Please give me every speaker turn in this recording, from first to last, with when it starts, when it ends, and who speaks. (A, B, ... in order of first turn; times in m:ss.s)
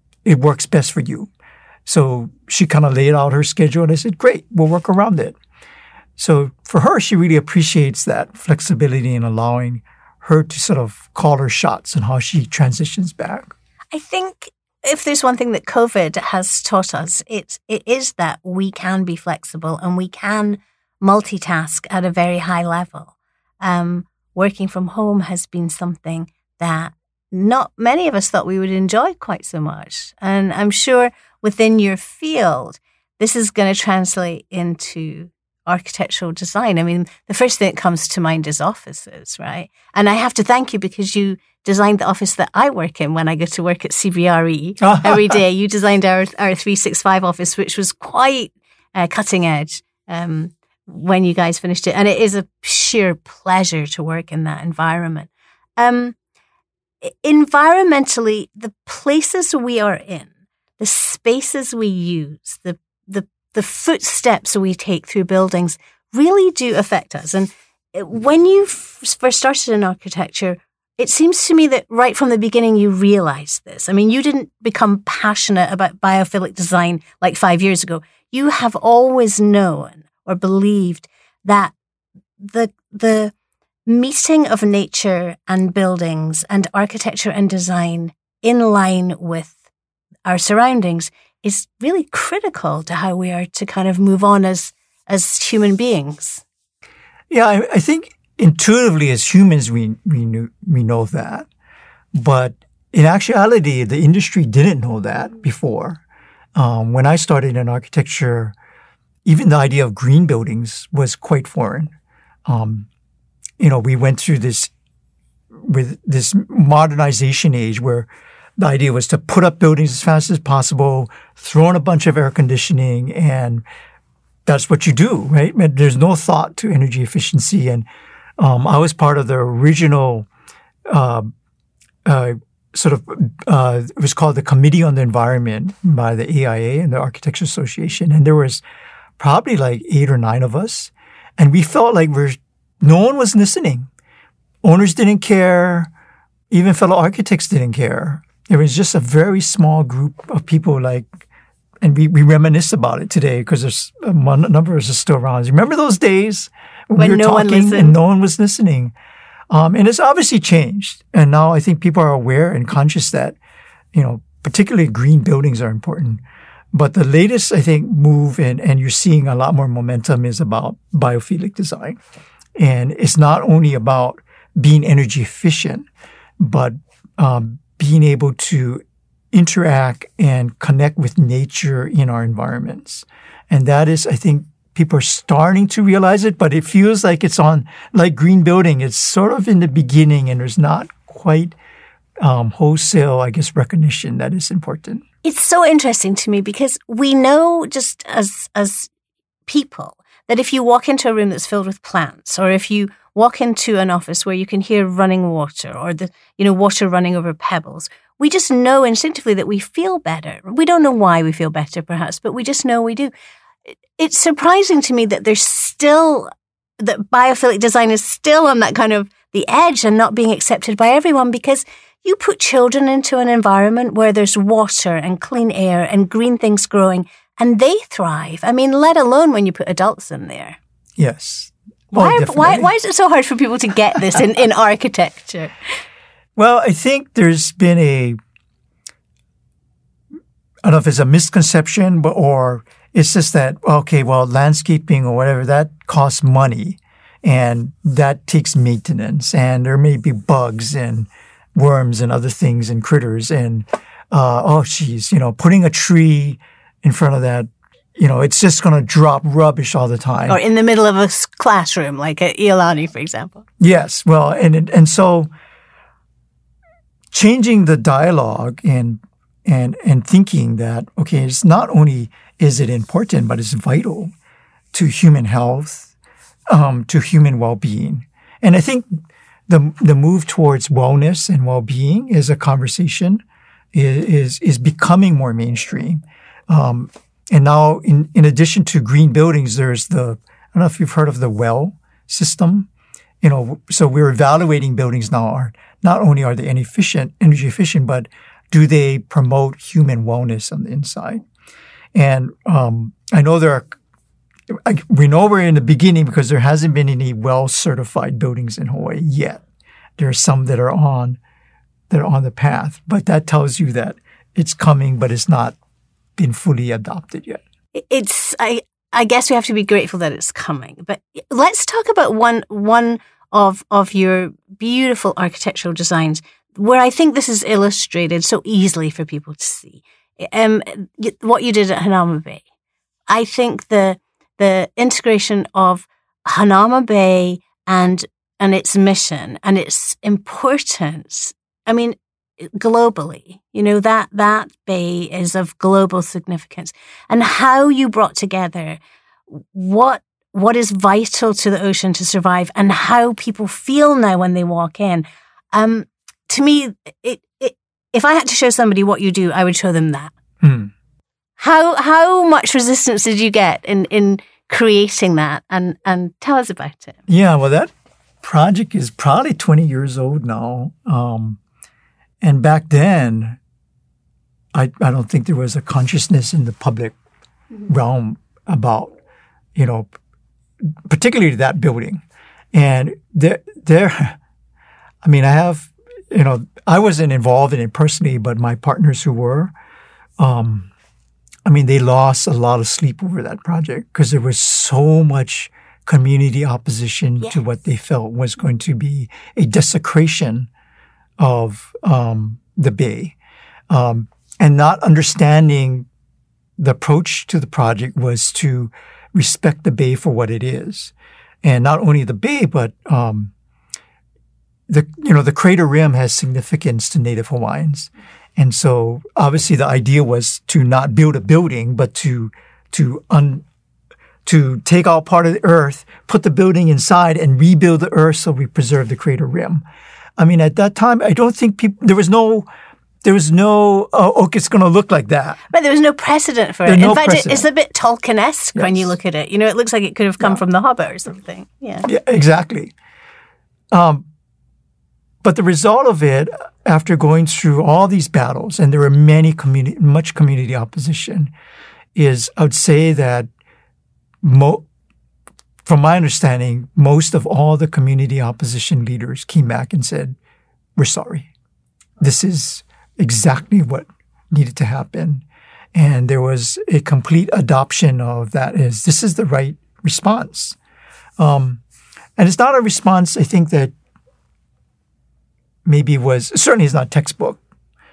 0:00.2-0:01.3 A
0:01.9-0:05.4 A
0:06.2-0:13.5 A
0:13.9-0:56.1 B
0:44.8-0:45.4 A
0:57.0-1:21.7 B
1:22.4-1:23.3 B
1:23.9-1:29.6 B
1:30.2-1:36.4 B
1:37.3-1:41.5 A
1:42.1-1:46.0 A
1:46.6-1:48.5 A
1:49.2-1:51.9 A
1:52.5-1:52.9 A
1:53.6-1:54.7 A
1:55.6-2:03.6 A
2:04.5-2:07.8 A
2:08.4-2:10.3 A
2:10.9-2:11.3 A
2:12.0-2:18.6 A
2:19.2-2:23.9 A
2:24.6-2:25.9 A
2:26.5-2:31.1 A
2:31.8-2:38.9 A
2:37.0-2:38.0 B
2:39.5-2:43.4 A
2:43.9-2:46.2 A
2:46.7-2:52.0 A
2:52.6-2:55.9 A
2:56.4-3:11.6 A
3:12.2-3:15.0 A
3:15.2-3:18.9 B
3:19.5-3:33.1 B
3:34.0-3:50.6 B
3:51.0-3:52.7 A
3:51.9-3:55.5 B
3:56.4-3:58.2 A
4:00.6-4:20.4 A
4:20.3-4:23.4 B
4:23.6-4:25.3 A
4:27.1-4:34.1 A
4:34.7-4:35.9 A
4:36.5-4:38.9 A
4:39.5-4:43.2 A
4:43.7-4:52.7 A
4:53.2-5:01.2 A
5:01.9-5:03.8 A
5:04.5-5:09.4 A
5:10.0-5:11.2 A
5:11.9-5:15.6 A
5:16.2-5:17.4 A
5:17.8-5:32.4 B
5:33.1-6:00.1 B
6:00.4-6:00.7 A
6:01.4-6:07.0 B
6:07.1-6:07.7 A
6:08.2-6:11.4 A
6:12.2-6:13.4 A
6:14.5-6:17.0 A
6:17.7-6:19.0 A
6:19.5-6:19.9 A
6:20.9-6:24.2 A
6:25.0-6:29.5 A
6:30.2-6:30.7 A
6:31.4-6:40.5 A
6:41.2-6:43.1 A
6:43.7-6:45.9 A
6:46.6-6:53.3 A
6:54.7-7:03.4 A
7:04.2-7:09.6 A
7:10.2-7:12.5 A
7:13.0-7:15.4 A
7:15.5-7:21.9 B
7:16.6-7:17.5 A
7:18.5-7:18.9 A
7:21.8-7:22.7 A
7:23.7-7:24.0 A
7:25.2-7:31.3 A
7:32.0-7:33.3 A
7:34.2-7:34.6 A
7:35.6-7:40.2 A
7:40.8-7:41.3 A
7:42.0-7:50.6 A
7:51.2-7:51.6 A
7:52.2-7:53.7 A
7:55.6-7:57.4 A